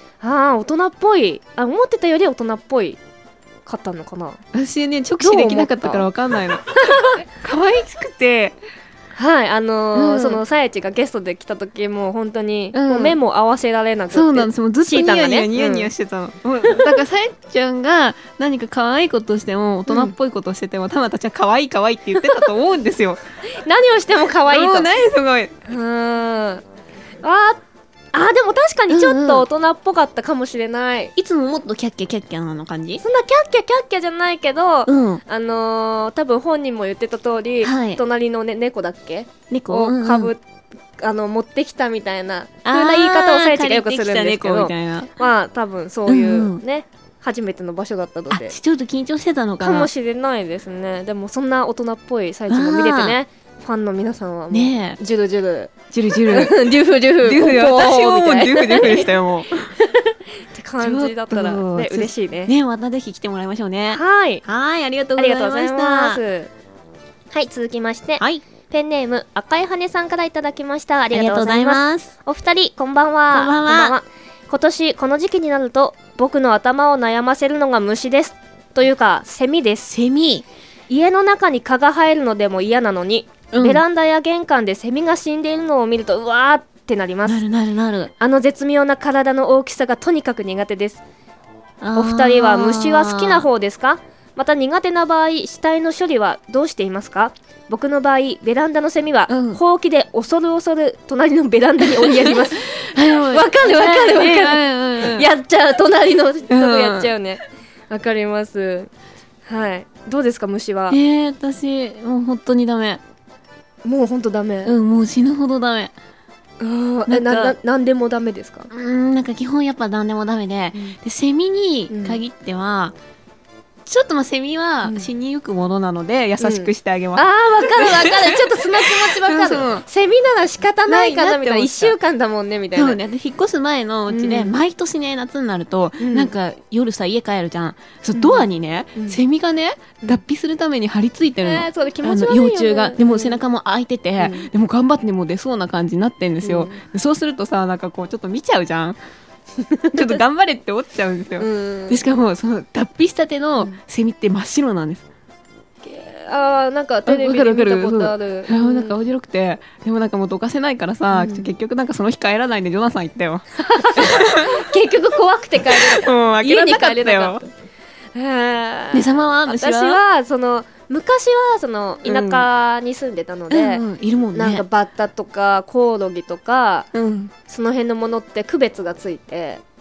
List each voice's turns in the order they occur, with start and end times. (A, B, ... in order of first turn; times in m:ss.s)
0:00.2-0:03.0 A
0:03.7-0:04.4 A
0:04.5-0:08.6 B
0:05.2-0:06.1 A
0:06.8-0:07.2 A
0:09.2-0:15.9 A
0:09.9-0:10.4 B
0:12.7-0:13.2 B
0:14.1-0:23.2 B
0:16.7-0:17.0 A
0:19.9-0:20.1 A
0:22.2-0:22.5 A
0:23.4-0:24.9 A
0:24.5-0:25.5 B
0:25.7-0:26.6 A
0:27.2-0:27.6 A
0:28.1-0:31.1 A
0:28.9-0:29.5 B
0:31.2-0:33.0 B
0:33.0-0:40.4 A
0:34.9-0:35.2 B
0:37.6-0:38.0 B
0:39.5-0:40.3 B
0:41.0-0:48.6 A
0:42.6-0:45.2 B
0:46.1-0:46.6 B
0:48.3-0:49.9 B
0:49.6-0:59.1 A
0:52.5-0:53.2 B
0:54.5-0:55.0 B
0:55.9-0:59.7 B
0:59.8-1:02.5 A
1:00.8-1:06.2 B
1:03.9-1:04.4 A
1:05.2-1:06.5 A
1:07.3-1:19.9 A
1:08.2-1:08.4 B
1:11.1-1:12.1 B
1:13.3-1:14.0 B
1:19.9-1:20.4 B
1:20.9-1:27.4 A
1:23.5-1:23.8 B
1:27.2-1:28.1 B
1:28.2-1:31.0 A
1:31.8-1:33.5 B
1:32.0-1:48.9 A
1:39.3-1:39.6 B
1:41.9-1:45.3 B
1:46.5-1:47.1 B
1:49.5-1:51.0 A
1:50.9-1:53.0 B
1:53.8-1:54.7 A
1:54.6-1:55.9 B
1:56.6-1:58.7 A
1:57.1-1:57.6 B
1:58.7-2:03.0 B
2:01.9-2:02.2 A
2:03.9-2:09.8 B
2:06.4-2:13.0 A
2:10.9-2:12.0 B
2:12.8-2:29.0 B
2:14.1-2:14.6 A
2:16.0-2:16.3 A
2:18.1-2:19.2 A
2:21.4-2:23.4 A
2:24.2-2:24.5 A
2:26.4-2:26.8 A
2:29.7-2:30.2 A
2:29.9-2:35.0 B
2:31.4-2:32.0 A
2:35.8-2:39.0 A
2:37.1-2:44.7 B
2:41.1-2:41.5 A
2:43.6-2:47.5 A
2:45.7-2:47.4 B
2:48.2-2:56.9 A
2:48.9-2:50.0 B
2:52.0-2:52.5 B
2:53.5-2:54.6 B
2:56.9-2:57.3 B
2:57.5-2:59.6 A